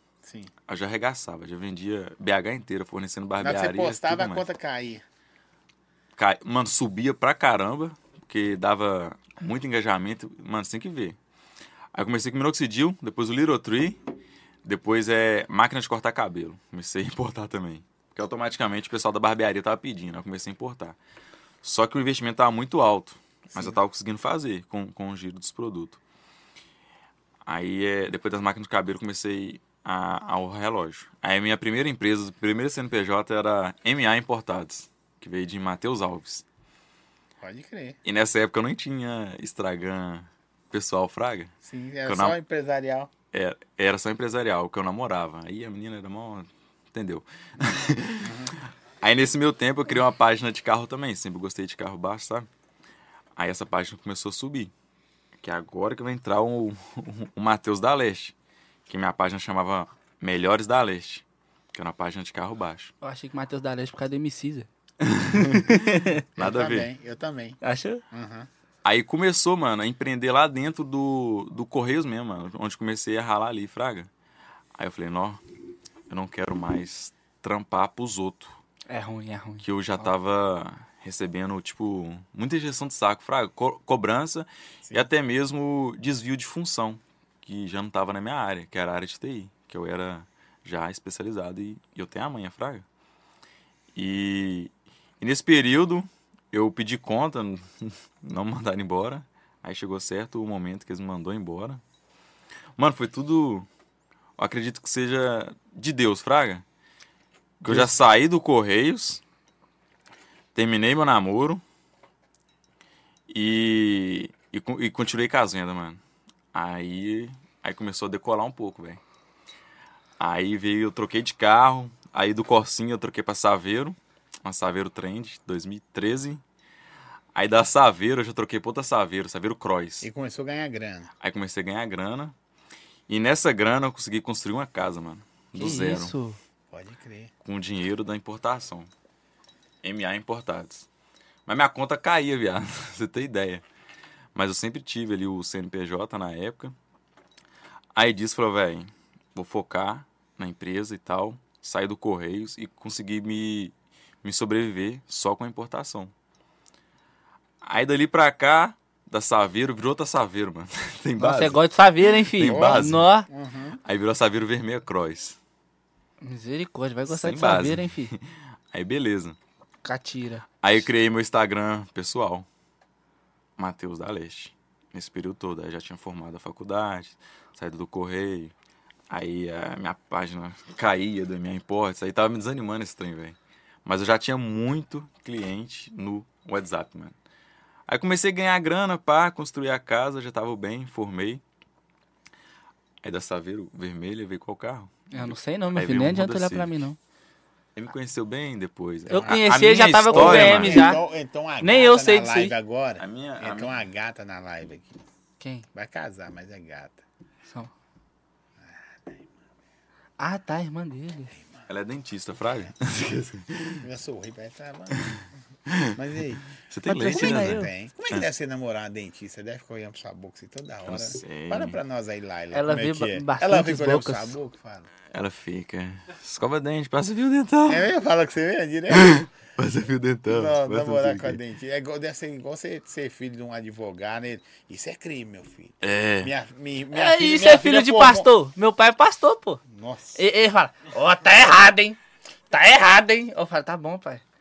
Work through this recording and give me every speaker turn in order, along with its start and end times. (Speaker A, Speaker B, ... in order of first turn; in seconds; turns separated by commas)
Speaker A: 0.2-0.5, Speaker B: 0.7-4.5, Speaker A: 3.4-5.0, Speaker B: 6.2-11.2, Speaker B: 11.9-14.0, Speaker B: 14.6-21.0, Speaker B: 21.6-26.0, Speaker A: 23.5-23.8, Speaker B: 27.5-36.5, Speaker A: 37.4-38.0, Speaker B: 38.0-41.5, Speaker A: 41.6-43.1, Speaker B: 42.1-42.4, Speaker B: 43.3-52.5, Speaker A: 48.2-48.5, Speaker B: 53.4-54.7, Speaker B: 55.4-58.3, Speaker B: 58.9-61.2, Speaker B: 61.7-62.9, Speaker C: 63.0-64.7, Speaker B: 65.0-66.9, Speaker C: 65.3-66.2, Speaker A: 66.4-67.6, Speaker C: 67.6-68.0, Speaker A: 68.1-68.5, Speaker B: 68.8-74.1, Speaker B: 74.8-75.4, Speaker B: 76.1-78.6, Speaker C: 78.9-80.1, Speaker B: 79.6-92.8, Speaker B: 94.0-101.8, Speaker B: 102.8-103.7, Speaker B: 104.4-106.6, Speaker B: 107.6-109.2, Speaker C: 107.7-107.9, Speaker B: 110.5-111.6, Speaker B: 113.3-116.0, Speaker B: 116.5-119.0, Speaker B: 120.2-126.4, Speaker B: 127.3-130.1, Speaker A: 130.0-131.1, Speaker B: 131.2-132.3, Speaker B: 133.1-136.1, Speaker C: 135.6-136.4, Speaker A: 136.7-137.3, Speaker B: 137.4-138.9, Speaker B: 139.8-140.9, Speaker B: 141.5-143.6, Speaker B: 144.3-146.7, Speaker B: 147.9-156.1, Speaker B: 157.6-163.1, Speaker C: 161.2-163.3, Speaker A: 162.4-163.8, Speaker B: 163.8-165.4, Speaker C: 166.2-168.1, Speaker B: 167.1-169.4, Speaker C: 169.8-170.5, Speaker B: 170.6-172.5, Speaker B: 173.6-178.5, Speaker B: 179.1-187.2, Speaker B: 187.9-191.4, Speaker B: 193.0-196.8, Speaker C: 195.1-197.0, Speaker B: 197.8-200.9, Speaker A: 199.1-199.5, Speaker C: 199.1-201.0, Speaker A: 200.1-205.0, Speaker C: 201.6-202.5, Speaker B: 203.0-203.8, Speaker C: 205.4-205.7, Speaker A: 205.7-207.0, Speaker A: 208.7-209.3, Speaker C: 210.2-211.3, Speaker A: 211.4-211.6, Speaker B: 211.7-213.8, Speaker A: 213.8-215.2, Speaker B: 214.9-216.0, Speaker A: 215.9-216.4, Speaker B: 216.6-218.3, Speaker C: 216.9-217.7, Speaker A: 217.1-224.9, Speaker B: 220.9-221.8, Speaker C: 222.5-224.3, Speaker B: 225.1-227.9, Speaker A: 227.7-229.3, Speaker B: 228.9-231.4, Speaker A: 230.3-238.3, Speaker B: 235.8-236.3, Speaker C: 236.9-239.6, Speaker A: 239.7-240.2, Speaker C: 240.2-242.0, Speaker C: 242.5-244.2